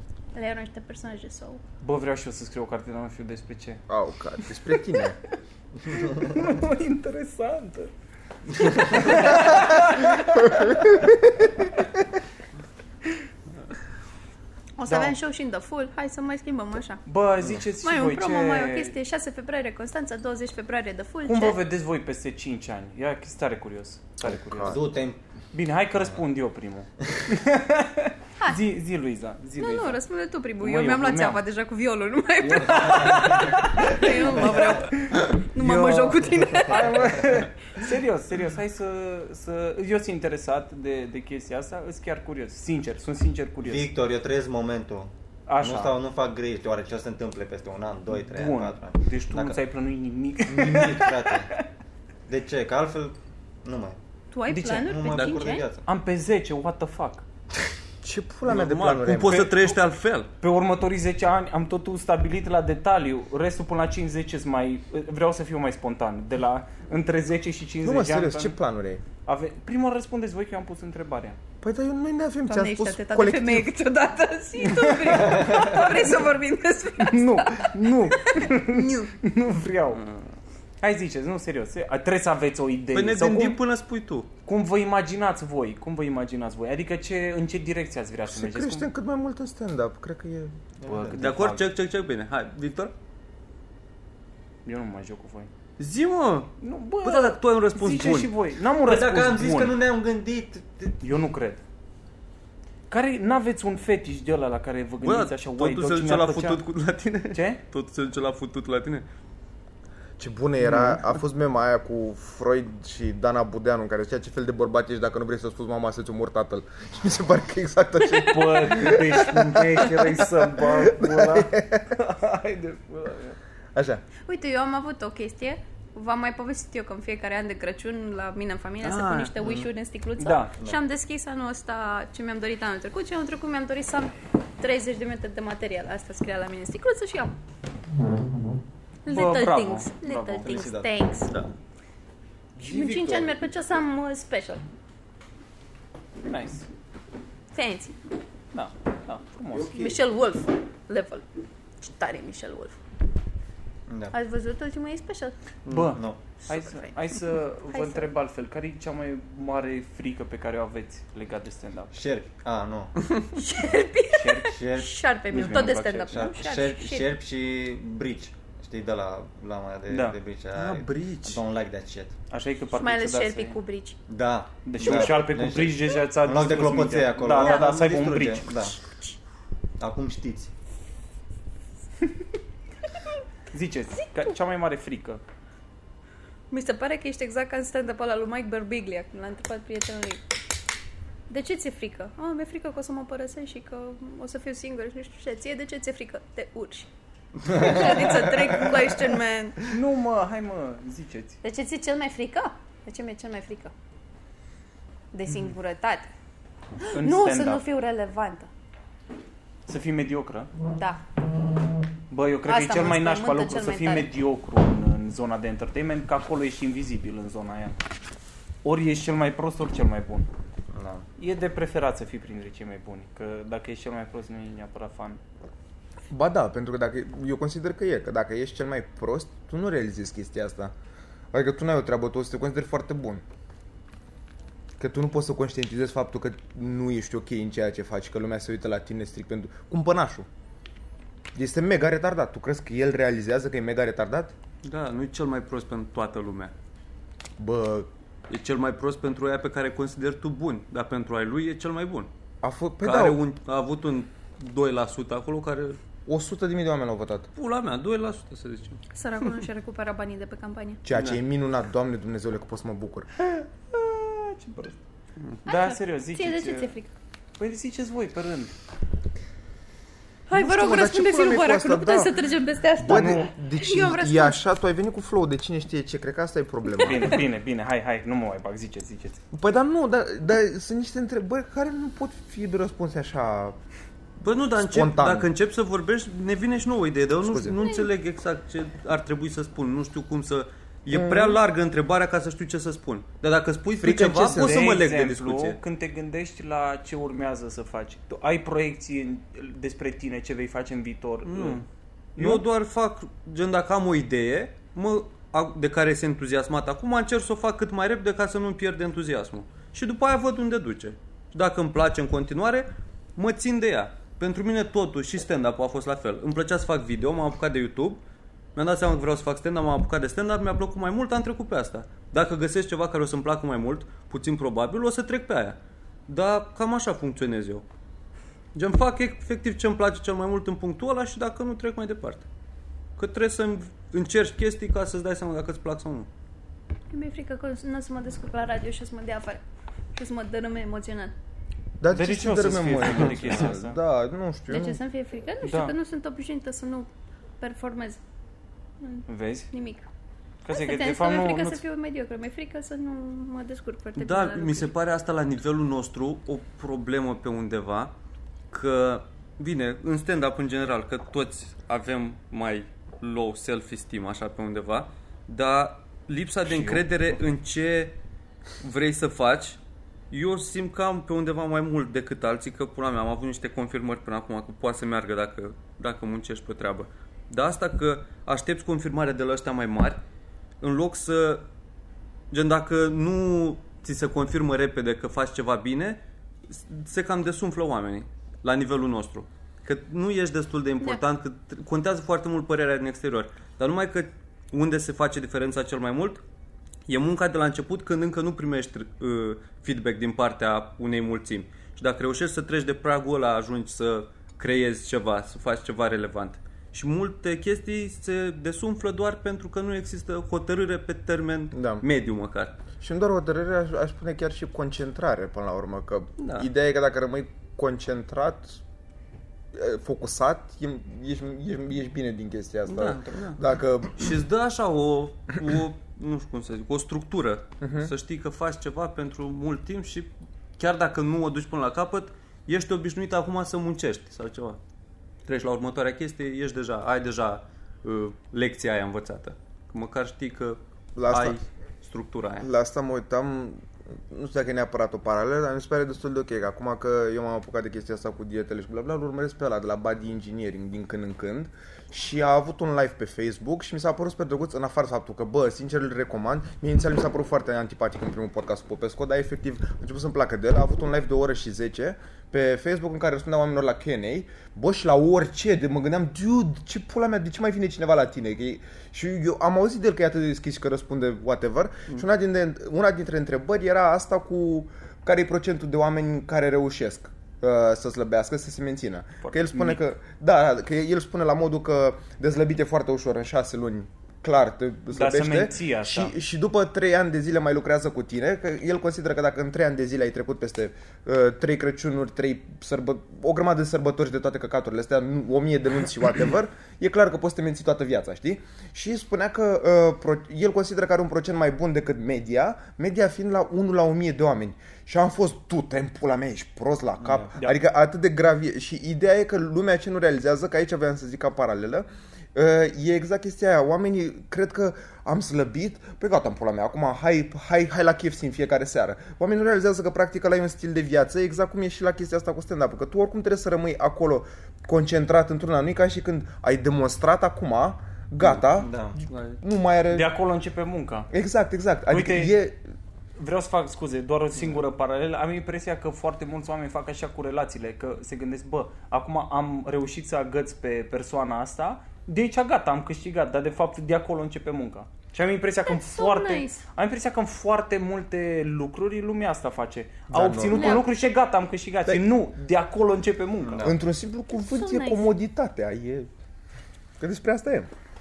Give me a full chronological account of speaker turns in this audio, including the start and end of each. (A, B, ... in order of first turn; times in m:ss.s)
0:00.3-0:01.6 A
0:01.8-0:03.8 B
0:03.9-0:05.2 C
0:04.4-0:05.0 B
0:05.9-0:07.9 B
0:08.6-0:11.1 B
0:10.5-0:11.4 C
0:14.8-0:17.0 A
0:14.8-0:15.2 B
0:17.1-0:19.0 B
0:17.8-0:21.6 A
0:21.3-0:24.8 B
0:24.2-0:24.8 C
0:24.6-0:25.2 D
0:25.5-0:30.0 B
0:29.6-0:37.1 A
0:30.6-0:31.4 B
0:32.4-0:43.9 B
0:34.5-0:34.8 D
0:43.6-0:49.6 D
0:45.5-0:46.0 B
0:48.1-0:51.6 B
0:50.5-0:51.5 D
0:52.3-0:54.0 D
0:54.3-0:55.7 A
0:54.5-0:54.9 B
0:54.8-0:55.8 D
0:55.1-0:55.5 E
0:55.8-0:57.2 B
0:58.0-0:59.5 C
0:58.5-1:00.3 E
0:59.2-0:59.8 B
1:00.4-1:08.6 B
1:07.8-1:09.0 C
1:09.2-1:11.4 B
1:11.6-1:13.7 C
1:12.5-1:19.1 A
1:14.6-1:15.6 B
1:17.0-1:20.0 B
1:19.9-1:20.3 E
1:20.8-1:23.6 B
1:22.9-1:24.3 E
1:24.5-1:28.9 B
1:28.3-1:30.5 C
1:30.8-1:31.3 D
1:30.8-1:31.7 B
1:31.1-1:32.9 E
1:34.6-1:35.5 B
1:35.8-1:36.5 E
1:36.6-1:39.8 B
1:37.0-1:38.3 E
1:38.8-1:41.0 D
1:41.0-1:41.6 B
1:42.9-1:46.6 B
1:45.0-1:49.1 E
1:47.3-1:47.6 B
1:50.2-2:01.9 C
1:50.6-1:51.0 B
1:58.2-2:03.4 B
2:03.8-2:04.0 C
2:04.2-2:17.4 A
2:08.8-2:09.4 E
2:09.4-2:09.7 D
2:10.2-2:10.5 B
2:19.1-2:21.3 A
2:19.1-2:20.8 B
2:20.4-2:20.9 D
2:22.6-2:24.6 A
2:22.7-2:23.3 D
2:26.2-2:26.7 B
2:27.5-2:28.0 A
2:28.5-2:29.9 B
2:29.7-2:31.2 A
2:31.8-2:32.8 A
2:33.9-2:34.2 D
2:34.1-2:35.3 A
2:35.7-2:36.0 E
2:35.7-2:41.9 B
2:35.8-2:36.2 D
2:36.5-2:37.0 A
2:37.7-2:38.1 A
2:41.9-2:43.1 D
2:43.3-2:47.1 A
2:44.1-2:44.6 B
2:44.5-2:52.1 D
2:45.3-2:46.2 B
2:49.9-2:50.2 B
2:50.5-2:51.4 E
2:52.3-2:53.6 B
2:52.7-2:54.0 A
2:54.1-2:58.8 D
2:54.6-2:58.6 B
2:57.4-2:57.7 A
2:59.8-3:00.5 D
3:03.5-3:05.2 B
3:06.5-3:10.2 A
3:11.3-3:16.9 A
3:17.5-3:18.5 D
3:17.5-3:19.6 A
3:19.7-3:21.4 B
3:21.4-3:23.7 A
3:25.1-3:26.1 A
3:26.8-3:28.5 A
3:26.9-3:27.6 B
3:29.7-3:30.5 B
3:30.8-3:31.0 A
3:32.1-3:37.8 B
3:32.4-3:34.1 A
3:38.6-3:40.3 B
3:40.7-3:41.1 D
3:41.2-3:45.2 B
3:46.1-3:50.7 C
3:51.3-3:53.2 C
3:54.8-4:00.3 C
4:01.4-4:04.3 C
4:04.6-4:06.5 E
4:07.4-4:07.9 C
4:08.3-4:12.1 E
4:12.4-4:13.2 C
4:12.8-4:15.8 E
4:16.1-4:17.3 C
4:17.4-4:19.3 E
4:18.9-4:20.8 A
4:20.8-4:23.1 C
4:20.9-4:21.2 E
4:23.2-4:24.8 B
4:25.4-4:26.7 B
4:25.5-4:26.9 A
4:27.4-4:28.6 B
4:30.3-4:34.4 A
4:30.3-4:32.2 C
4:32.8-4:37.2 C
4:32.9-4:33.3 B
4:36.8-4:39.2 B
4:39.3-4:43.6 C
4:44.2-4:55.6 E
4:44.6-4:45.3 C
4:47.2-4:47.6 C
4:50.9-4:51.4 C
4:53.8-4:54.8 C
4:54.2-5:01.6 B
5:01.3-5:01.7 E
5:02.2-5:02.4 B
5:02.2-5:18.0 E
5:18.6-5:27.6 E
5:28.6-5:32.3 E
5:33.0-5:36.1 E
5:36.9-5:39.4 A
5:40.0-5:41.1 A
5:41.8-5:44.8 C
5:41.9-5:43.8 B
5:44.5-5:46.9 A
5:45.4-5:45.8 B
5:47.4-5:48.0 A
5:48.8-5:49.9 A
5:49.1-5:49.5 B
5:50.4-5:51.6 B
5:50.5-5:54.7 A
5:54.0-5:57.9 E
5:58.5-6:08.0 E
6:06.4-6:06.9 B
6:08.6-6:09.6 E
6:10.1-6:20.0 E
6:20.6-6:21.5 E
6:22.3-6:36.2 E
6:36.9-6:52.6 E
6:51.5-6:51.8 C
6:52.8-6:58.6 C
6:56.2-6:56.5 E
6:59.5-7:04.2 C
7:02.7-7:03.4 E
7:04.0-7:14.6 E
7:07.6-7:07.9 C
7:15.2-7:22.5 E
7:21.0-7:21.4 C
7:22.4-8:48.7 C
7:59.2-7:59.8 B
8:04.9-8:06.1 B
8:27.0-8:27.3 D
8:48.6-8:49.0 D
8:49.0-8:49.4 E
8:49.4-8:50.1 C
8:49.9-8:51.1 B
8:51.1-8:52.6 C
8:51.9-8:52.4 B
8:53.2-9:13.7 B
9:05.7-9:06.6 A
9:10.1-9:10.9 C
9:10.5-9:10.8 A
9:13.4-9:13.8 D
9:13.6-9:16.1 C
9:14.4-9:15.1 A
9:17.0-9:17.7 C